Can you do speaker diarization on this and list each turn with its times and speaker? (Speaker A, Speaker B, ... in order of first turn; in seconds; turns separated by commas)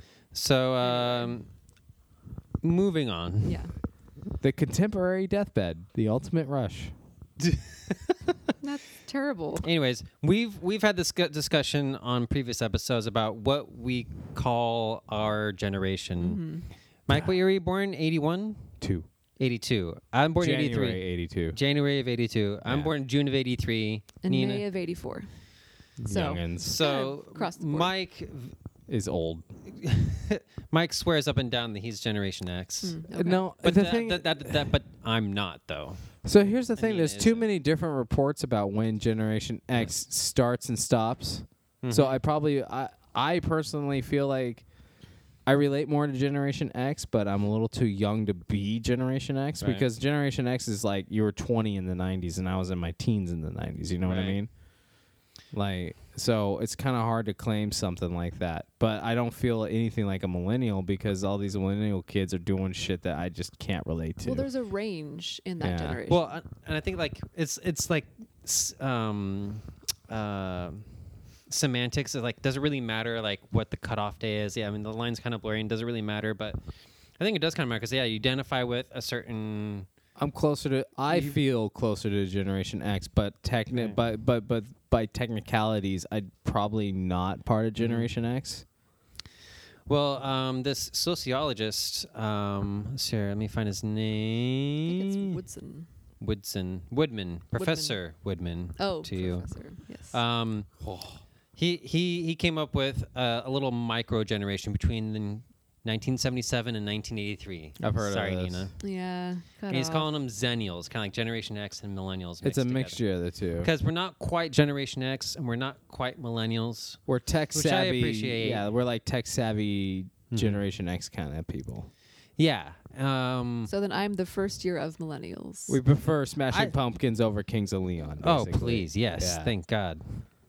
Speaker A: 0.3-1.5, Speaker B: 0.8-1.4, Speaker A: 2.6-3.6, Speaker B: 3.4-3.7, Speaker C: 4.4-6.9, Speaker A: 7.4-8.3, Speaker B: 8.6-9.7, Speaker A: 9.6-16.4, Speaker B: 16.2-16.7, Speaker A: 17.1-18.7, Speaker C: 18.8-19.1, Speaker A: 19.4-24.6, Speaker C: 20.4-21.6, Speaker C: 22.6-22.9, Speaker B: 24.2-25.3, Speaker C: 26.0-26.8, Speaker B: 26.1-27.9, Speaker A: 26.6-28.5, Speaker C: 28.9-29.4, Speaker A: 29.6-33.0, Speaker B: 32.8-33.4, Speaker C: 33.1-34.7, Speaker A: 33.6-36.1, Speaker C: 36.2-44.6, Speaker A: 36.8-37.5, Speaker A: 41.8-42.2, Speaker C: 45.5-54.5, Speaker A: 49.6-49.9, Speaker A: 54.0-54.4, Speaker C: 55.5-64.5, Speaker B: 64.2-66.3, Speaker C: 65.6-66.0, Speaker A: 66.1-76.6, Speaker A: 77.2-79.9, Speaker C: 80.2-88.6, Speaker A: 81.1-81.4, Speaker A: 83.7-84.0, Speaker A: 87.8-88.1, Speaker A: 89.9-95.3, Speaker B: 94.8-95.9, Speaker A: 96.2-99.5, Speaker B: 97.5-98.0, Speaker B: 98.8-100.2, Speaker A: 100.1-100.7, Speaker C: 100.8-101.1, Speaker A: 101.5-108.8, Speaker C: 107.8-108.7, Speaker B: 108.8-110.1, Speaker A: 109.7-113.0, Speaker C: 112.4-113.7, Speaker A: 113.6-117.0, Speaker C: 117.1-121.9, Speaker A: 117.5-118.7, Speaker A: 120.3-120.6, Speaker A: 122.4-123.7, Speaker B: 123.7-125.8, Speaker C: 125.7-129.5, Speaker A: 128.2-130.3